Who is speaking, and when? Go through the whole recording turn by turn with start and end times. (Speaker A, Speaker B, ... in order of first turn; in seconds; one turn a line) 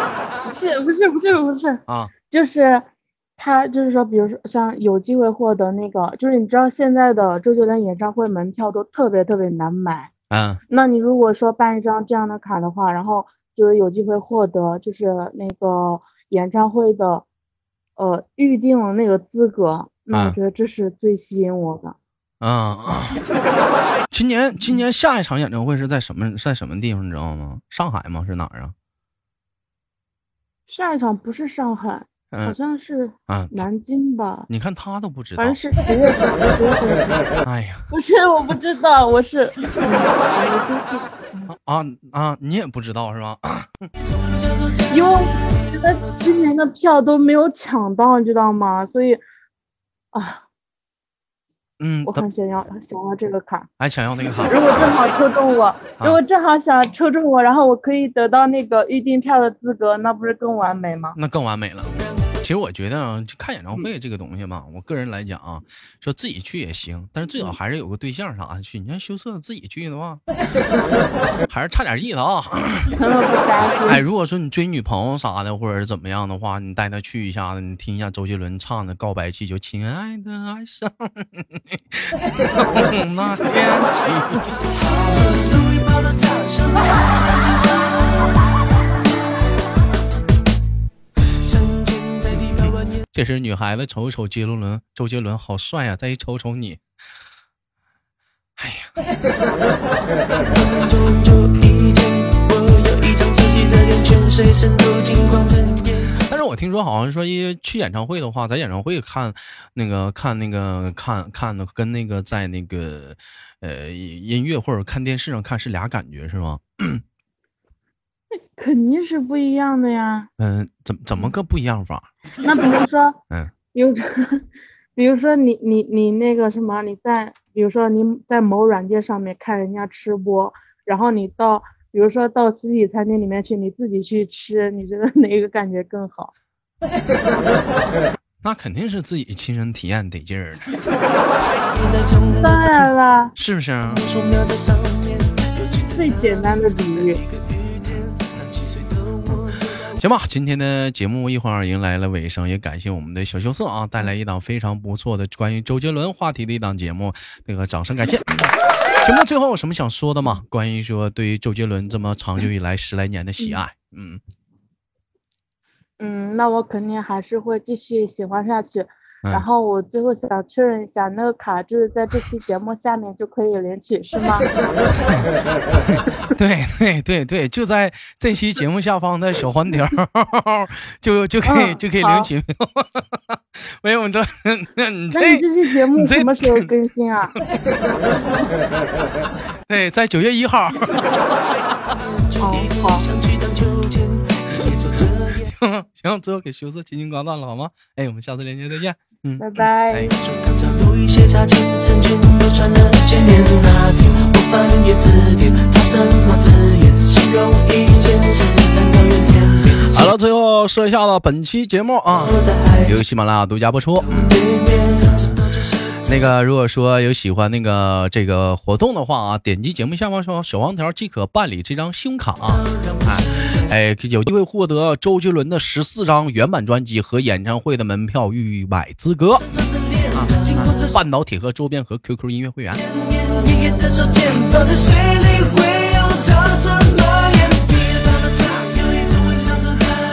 Speaker A: 0.5-10.1
Speaker B: 1.9-2.1
Speaker B: 10.3-10.6
Speaker A: 10.7-17.2
Speaker A: 18.0-22.0
Speaker B: 20.1-20.4
Speaker B: 22.4-23.2
Speaker B: 24.1-28.8
Speaker A: 30.7-34.5
Speaker B: 33.3-33.6
Speaker B: 34.5-35.6
Speaker A: 35.4-37.1
Speaker B: 37.4-37.9
Speaker A: 37.9-41.5
Speaker B: 41.5-43.9
Speaker A: 44.9-49.2
Speaker A: 50.1-50.4
Speaker B: 51.8-52.2
Speaker A: 52.1-53.7
Speaker B: 53.8-55.0
Speaker A: 54.5-61.2
Speaker B: 61.1-70.2
Speaker B: 71.5-72.9
Speaker A: 73.0-74.0
Speaker B: 73.9-84.5
Speaker C: 84.9-87.7
Speaker C: 91.8-92.7
Speaker B: 93.1-96.8
Speaker B: 98.6-98.9
Speaker C: 100.7-105.9
Speaker B: 106.2-117.0
Speaker A: 118.5-120.3
Speaker B: 120.4-122.1
Speaker A: 122.4-123.2
Speaker A: 123.7-136.3
Speaker B: 138.4-140.7
Speaker A: 142.3-143.3
Speaker B: 143.4-144.1
Speaker C: 144.1-146.0
Speaker A: 145.9-147.2
Speaker C: 148.1-149.5
Speaker B: 149.8-164.2
Speaker A: 166.0-174.5
Speaker B: 175.9-186.7
Speaker A: 181.4-182.3
Speaker A: 185.1-187.3
Speaker B: 189.7-191.8
Speaker C: 192.4-195.4
Speaker A: 192.4-193.1
Speaker B: 195.4-200.1
Speaker A: 199.4-200.1
Speaker C: 200.3-209.9
Speaker B: 209.8-214.5
Speaker C: 212.5-212.8
Speaker C: 214.4-215.3
Speaker B: 216.0-229.5
Speaker C: 229.9-230.9
Speaker B: 230.1-232.8
Speaker C: 233.2-239.9